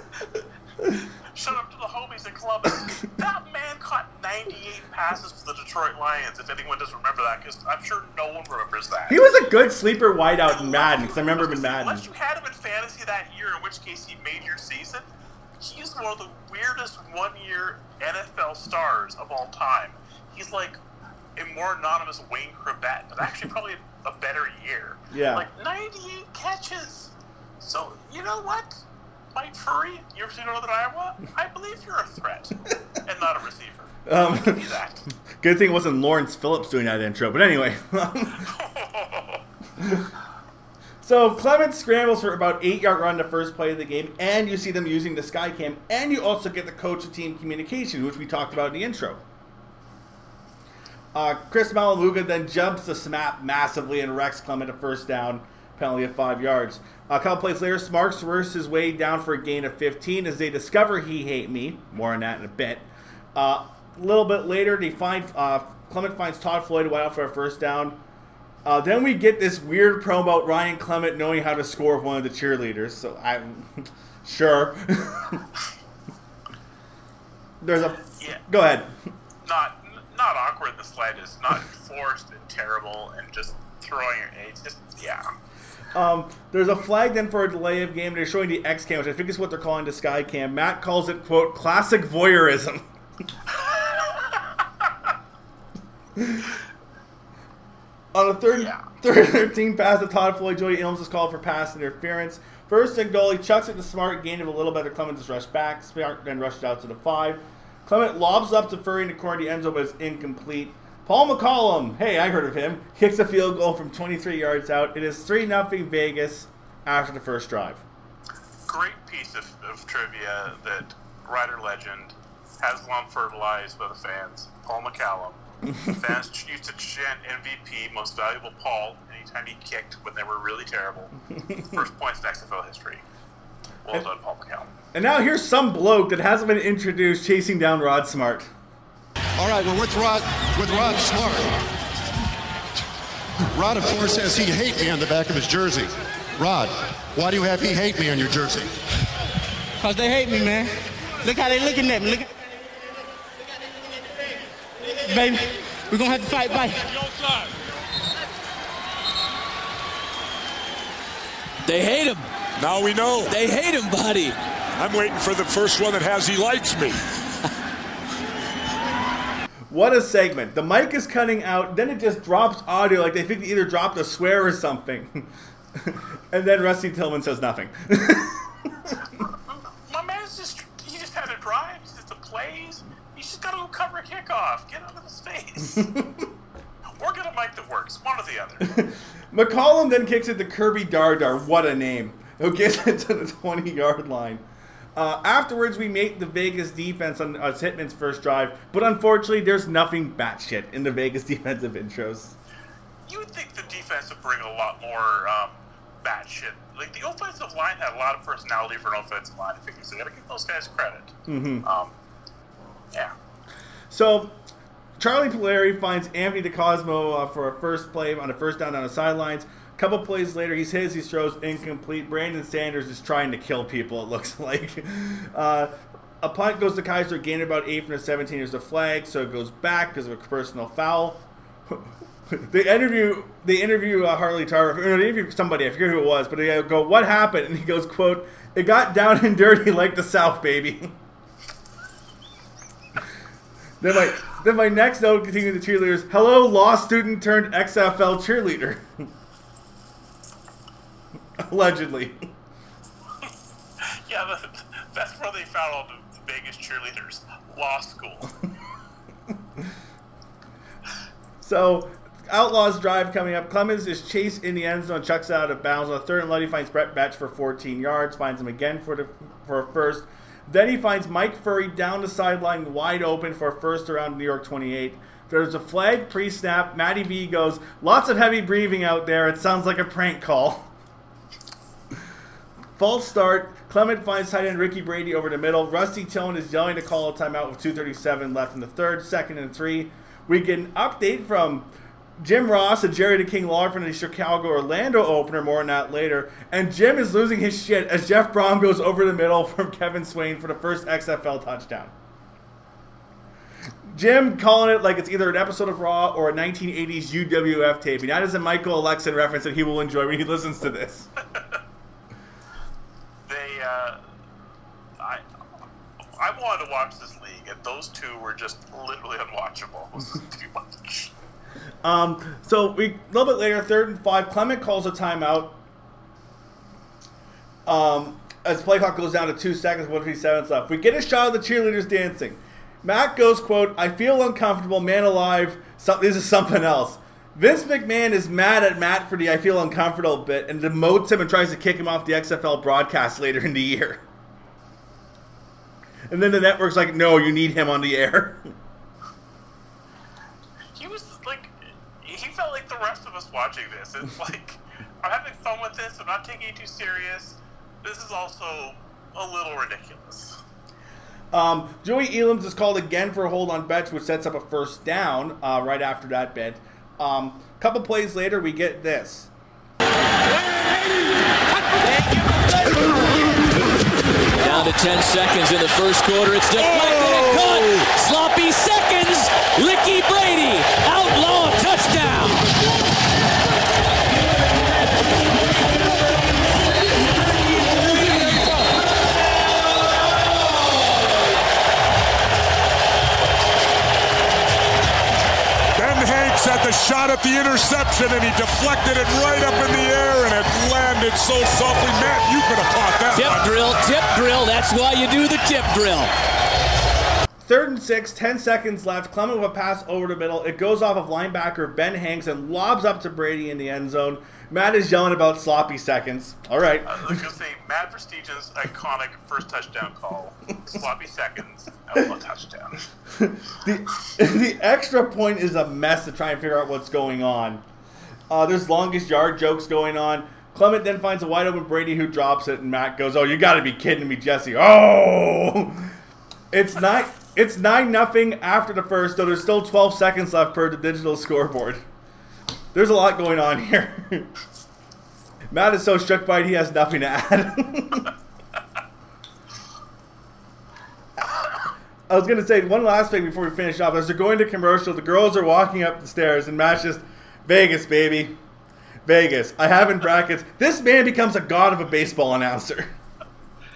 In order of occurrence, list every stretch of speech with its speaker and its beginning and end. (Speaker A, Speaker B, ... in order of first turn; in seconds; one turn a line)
Speaker A: 1.3-9.2
Speaker B: 9.1-12.0
Speaker A: 10.5-15.1
Speaker A: 15.6-20.8
Speaker A: 21.4-28.8
Speaker B: 25.1-25.5
Speaker A: 29.3-35.1
Speaker B: 34.0-34.7
Speaker B: 35.4-38.5
Speaker A: 38.4-39.4
Speaker B: 39.8-40.1
Speaker B: 41.0-49.2
Speaker B: 51.1-68.0
Speaker B: 68.6-75.4
Speaker B: 77.6-78.9
Speaker A: 79.4-85.2
Speaker B: 85.9-92.8
Speaker A: 93.5-94.4
Speaker B: 96.2-96.5
Speaker B: 98.1-117.8
Speaker A: 98.5-98.8
Speaker A: 118.7-133.0
Speaker A: 133.8-134.7
Speaker B: 134.9-138.5
Speaker C: 139.4-141.5
Speaker C: 143.6-148.7
Speaker D: 149.8-150.7
Speaker D: 151.2-152.3
Speaker D: 155.1-156.9
Speaker E: 161.6-162.2
Speaker F: 162.6-163.3
Speaker E: 163.3-164.3
Speaker F: 164.8-167.0
Speaker B: 169.7-175.3
Speaker B: 175.8-178.9
Speaker A: 179.5-185.9
Speaker B: 185.8-186.2
Speaker A: 187.0-188.8
Speaker B: 188.7-194.4
Speaker B: 194.9-202.3
Speaker A: 203.1-211.9
Speaker B: 211.3-211.7
Speaker B: 213.9-214.3
Speaker B: 215.0-240.9
Speaker B: 243.8-249.1
Speaker B: 251.4-252.2
Speaker A: 253.9-258.3
Speaker B: 261.4-280.7
Speaker B: 282.8-301.9
Speaker B: 303.9-311.1
Speaker A: 313.2-314.0
Speaker A: 316.2-321.1
Speaker B: 321.8-325.6
Speaker B: 327.6-344.0
Speaker B: 346.1-348.5
Speaker A: 350.8-360.4
Speaker B: 361.3-369.3
Speaker E: 374.4-382.5
Speaker F: 395.8-403.9
Speaker E: 403.1-406.1
Speaker B: 407.4-417.2
Speaker A: 416.9-422.8
Speaker B: 423.1-427.6
Speaker B: 428.3-435.9
Speaker B: 436.5-441.8
Speaker B: 442.7-444.3
Speaker B: 445.5-448.1
Speaker B: 452.1-458.4
Speaker B: 459.0-462.9